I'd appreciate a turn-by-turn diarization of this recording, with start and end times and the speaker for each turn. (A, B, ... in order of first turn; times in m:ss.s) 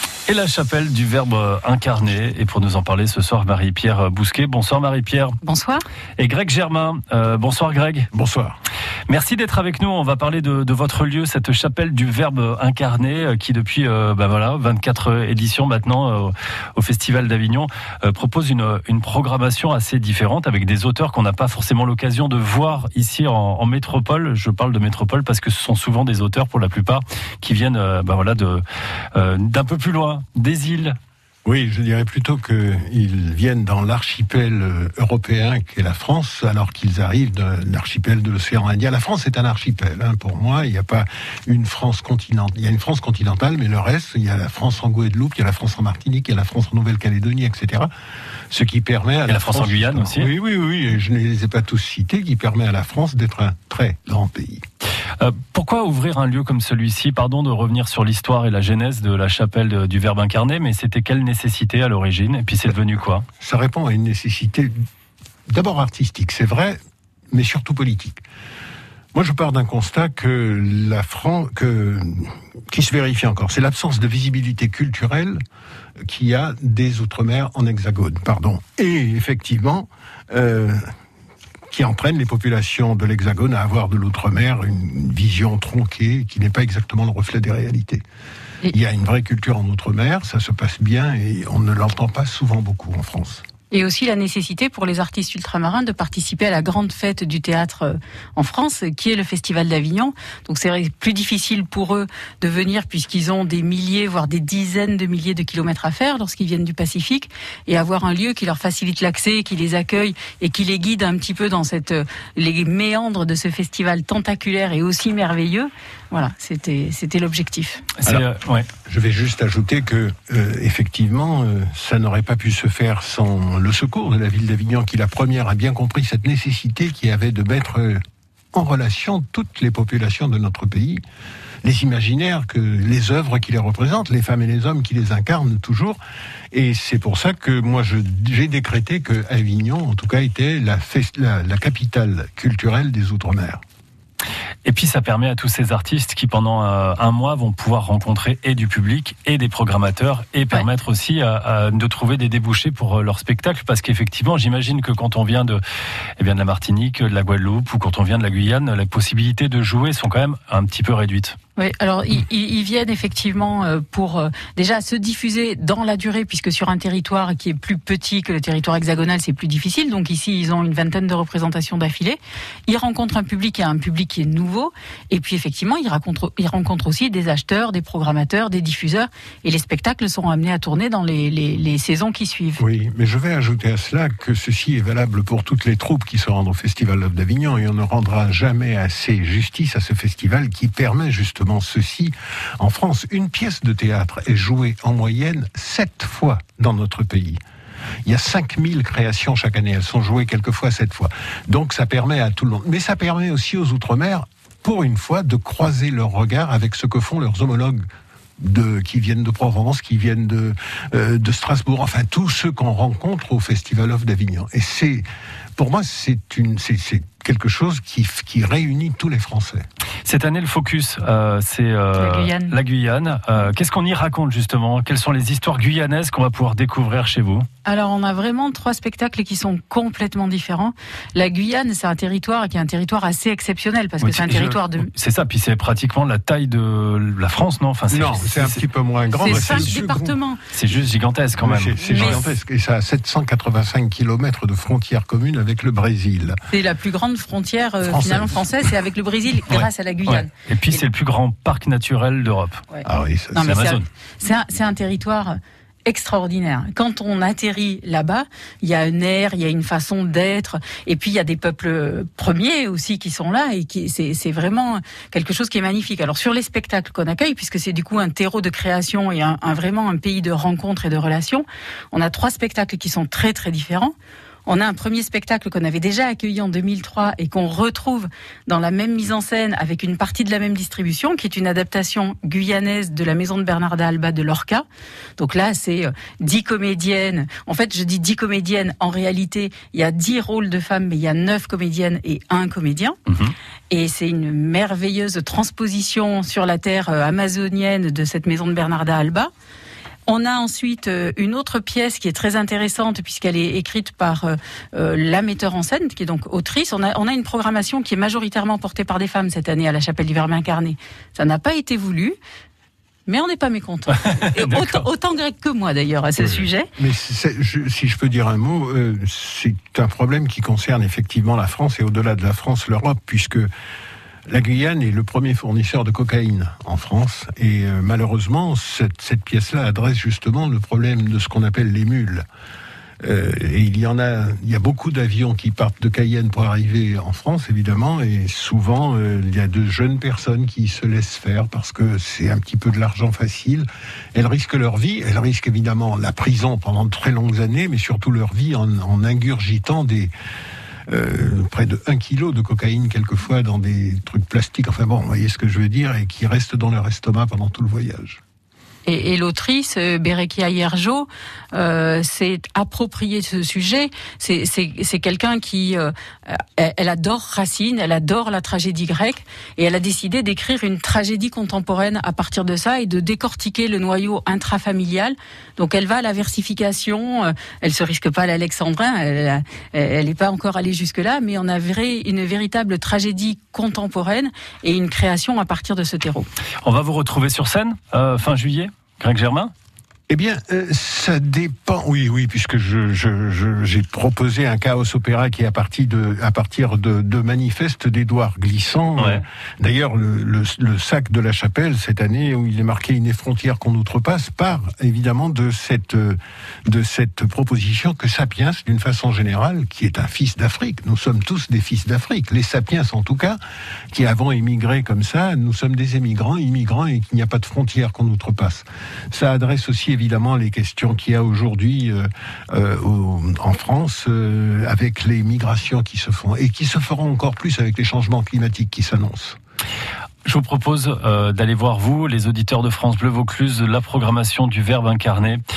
0:00.3-0:05.4 A
0:05.4-0:05.8 B
0:06.2-0:08.1 A
0:08.1-0:08.6 C
0:09.1-0:28.6 A
0:29.1-0:31.0 A
0:31.4-0:47.9 C
0:48.5-0:54.6 C
0:49.3-0:50.3 A
0:55.2-1:03.3 A
1:03.4-1:04.7 C
1:05.5-1:06.8 C
1:07.3-1:08.2 C
1:09.1-1:15.4 C
1:16.1-1:20.8 C
1:21.7-1:28.0 C
1:28.7-1:33.4 C
1:33.7-1:57.8 B
1:58.0-1:58.7 A
1:58.9-2:08.0 C
2:08.5-2:11.0 C
2:11.6-2:16.0 C
2:16.5-2:23.6 C
2:24.6-2:35.6 A
2:36.2-2:41.4 A
2:41.6-3:02.6 B
3:02.6-3:17.4 C
3:18.1-3:27.9 C
3:28.4-3:35.0 C
3:35.6-3:39.7 C
3:40.0-3:47.5 A
3:42.0-3:42.6 B
3:47.6-3:54.9 B
3:54.0-3:58.6 A
3:57.9-4:00.2 C
3:59.1-4:00.4 B
3:59.2-3:59.8 A
4:00.5-4:02.3 A
4:01.4-4:06.4 C
4:01.8-4:02.2 B
4:06.5-4:10.8 B
4:07.8-4:08.5 C
4:09.5-4:12.6 A
4:12.7-4:33.9 B
4:12.8-4:13.6 C
4:13.4-4:13.8 A
4:34.5-4:44.6 B
4:45.2-4:53.0 B
4:53.7-4:59.3 B
5:00.1-5:12.2 B
5:13.1-5:16.7 B
5:14.1-5:14.8 A
5:16.2-5:23.5 C
5:24.3-5:32.3 C
5:33.0-5:50.1 C
5:50.9-5:58.2 C
5:58.8-6:26.3 B
6:26.6-6:29.5 A
6:30.1-6:53.4 C
6:39.0-6:39.2 A
6:53.9-7:09.4 C
7:10.2-7:15.4 A